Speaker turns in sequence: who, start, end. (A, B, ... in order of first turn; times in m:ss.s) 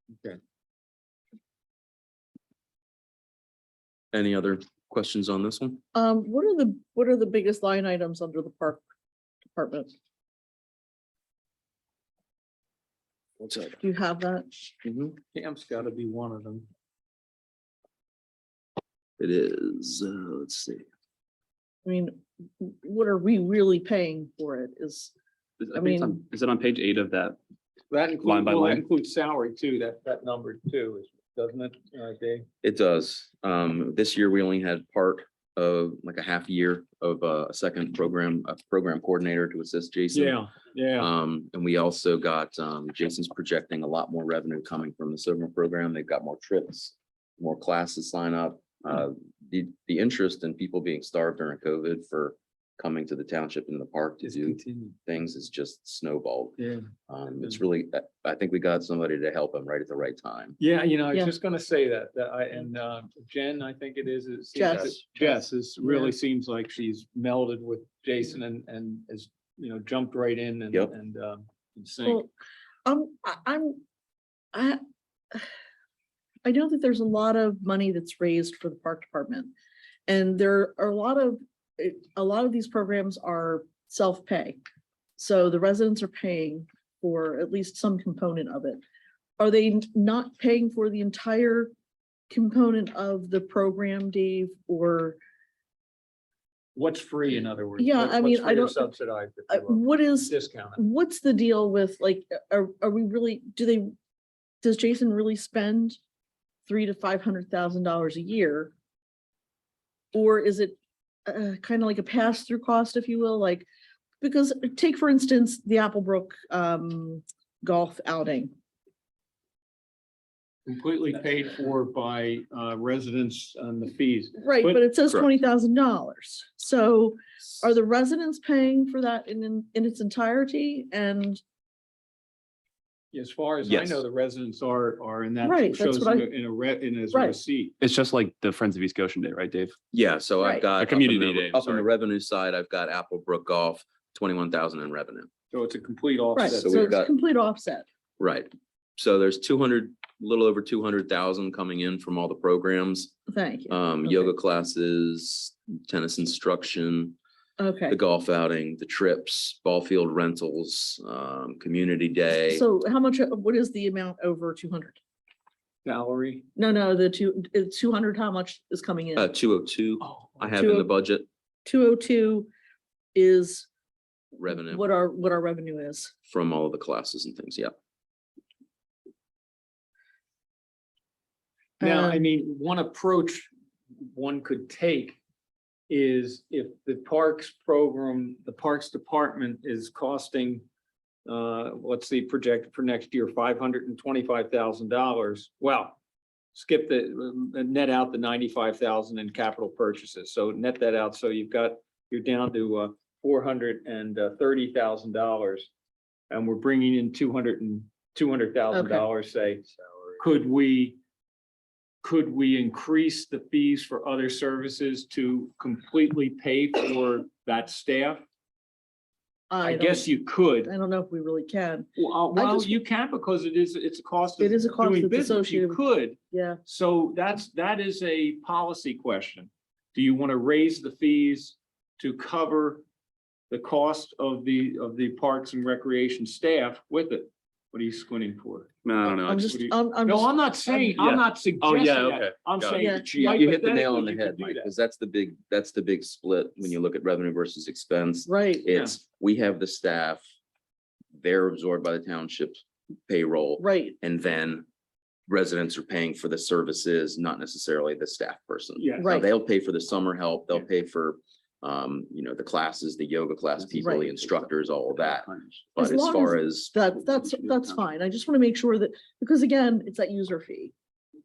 0:04.1-0:05.8 A
0:05.9-0:08.8 B
0:09.5-0:09.9 B
0:13.4-0:13.8 A
0:13.8-0:14.5 B
0:14.8-0:15.2 A
0:15.3-0:16.7 C
0:19.2-0:20.8 A
0:21.8-0:25.1 B
0:25.6-0:27.4 D
0:25.7-0:26.2 B
0:27.9-0:32.5 C
0:28.2-0:28.8 D
0:32.6-0:40.4 A
0:40.1-0:41.1 C
0:41.0-0:56.6 A
0:54.2-0:55.0 C
0:56.6-0:56.8 C
0:57.1-1:00.6 A
1:00.6-1:12.2 C
1:04.5-1:06.1 B
1:12.0-1:12.3 B
1:12.8-1:13.8 B
1:14.5-1:14.8 B
1:16.4-1:19.5 B
1:20.1-1:24.6 B
1:25.2-1:28.8 B
1:29.4-1:31.7 B
1:32.3-1:35.2 B
1:36.7-1:40.8 C
1:37.8-1:38.9 B
1:39.5-1:43.9 B
1:44.6-1:46.0 B
1:46.6-1:48.7 B
1:50.1-1:53.7 B
1:54.2-1:58.5 B
2:00.6-2:04.8 C
2:04.4-2:11.4 B
2:13.1-2:17.7 C
2:13.6-2:14.0 A
2:15.4-2:16.3 B
2:17.1-2:17.4 B
2:17.8-2:19.8 D
2:19.9-2:25.3 A
2:20.4-2:20.6 B
2:20.8-2:21.8 D
2:25.5-2:26.9 C
2:26.3-2:27.8 B
2:26.6-2:27.1 A
2:28.2-2:33.1 A
2:33.3-2:34.3 B
2:33.7-2:37.2 A
2:37.6-2:38.0 B
2:37.9-2:42.6 A
2:42.5-2:45.0 B
2:45.8-2:46.4 C
2:46.6-2:49.3 B
2:49.2-2:51.3 A
2:50.0-2:50.5 C
2:50.6-2:50.9 B
2:51.6-2:52.5 B
2:53.1-2:53.7 B
2:54.4-2:56.1 B
2:54.4-2:54.8 A
2:56.3-2:57.7 A
3:01.8-3:03.5 C
3:01.8-3:02.2 B
3:04.0-3:05.2 C
3:05.9-3:10.6 C
3:11.2-3:16.0 C
3:16.5-3:25.7 C
3:26.3-3:29.6 C
3:28.7-3:29.0 B
3:30.2-3:31.0 C
3:32.0-3:38.2 C
3:39.5-3:40.1 B
3:39.6-3:40.7 C
3:40.6-3:42.8 B
3:42.0-3:52.8 C
3:44.4-3:45.8 B
3:46.3-3:46.6 B
3:53.5-3:58.7 C
3:58.8-3:59.7 D
3:59.2-4:01.0 B
3:59.5-4:04.7 C
4:01.0-4:03.0 D
4:02.8-4:03.5 B
4:03.2-4:10.2 A
4:08.2-4:08.7 B
4:11.1-4:14.6 A
4:13.6-4:14.0 B
4:15.3-4:26.8 A
4:18.8-4:19.2 C
4:19.0-4:19.3 B
4:23.8-4:24.1 B
4:25.8-4:30.7 B